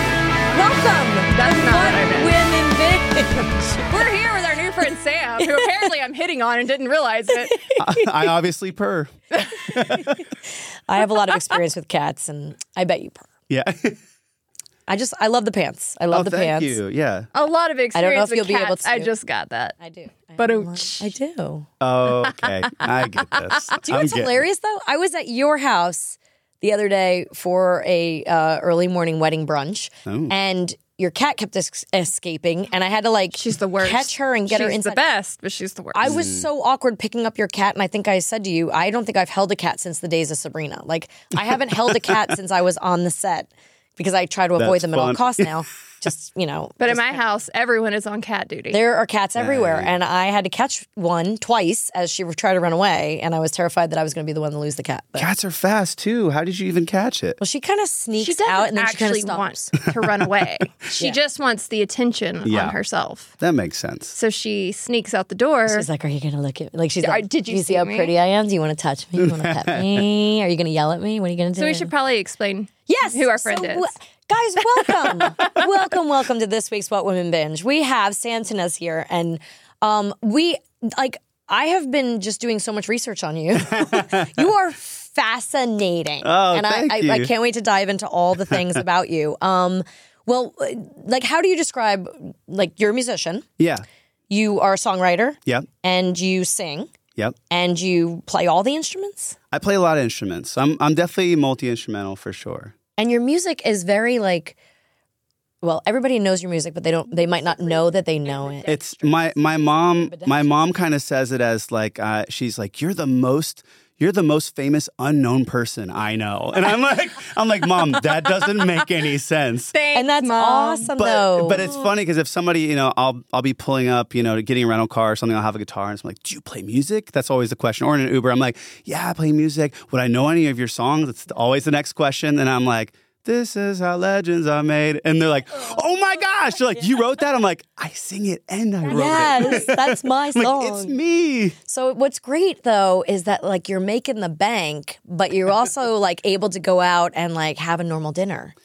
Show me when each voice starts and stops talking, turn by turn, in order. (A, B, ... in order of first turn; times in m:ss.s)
0:00.5-0:04.1 A
0:01.1-0:02.4 B
0:03.9-0:07.6 B
0:05.4-0:05.8 A
0:07.4-0:08.1 A
0:07.8-0:10.2 C
0:09.6-0:10.2 A
0:10.9-0:13.3 A
0:13.5-0:14.0 C
0:14.9-0:16.8 A
0:16.1-0:17.3 C
0:17.3-0:19.8 B
0:17.9-0:19.1 A
0:19.8-0:21.7 A
0:20.4-0:21.1 B
0:21.8-0:24.4 C
0:23.8-0:35.0 A
0:30.1-0:30.3 C
0:33.3-0:36.1 B
0:35.9-0:47.2 A
0:36.0-0:36.4 C
0:41.9-0:42.1 C
0:44.6-0:45.5 C
0:46.8-0:48.8 B
0:48.7-0:55.3 A
0:49.4-0:49.9 C
0:55.2-0:57.4 C
0:57.4-0:59.7 A
0:58.2-1:03.3 B
0:59.9-1:00.4 C
1:02.4-1:02.8 C
1:03.4-1:04.2 C
1:04.2-1:05.9 B
1:05.7-1:11.9 A
1:07.0-1:08.1 B
1:09.2-1:10.1 C
1:11.6-1:13.9 B
1:12.9-1:33.4 A
1:14.8-1:15.6 B
1:23.7-1:24.4 C
1:26.2-1:27.3 C
1:33.6-1:33.8 C
1:34.3-1:36.9 A
1:37.5-1:39.4 A
1:39.5-1:42.7 C
1:43.0-1:44.6 A
1:45.6-1:50.4 A
1:47.4-1:47.9 B
1:48.7-1:59.7 C
1:59.7-2:00.9 B
1:59.9-2:01.9 A
2:01.0-2:21.6 C
2:18.9-2:21.0 A
2:21.7-2:28.5 A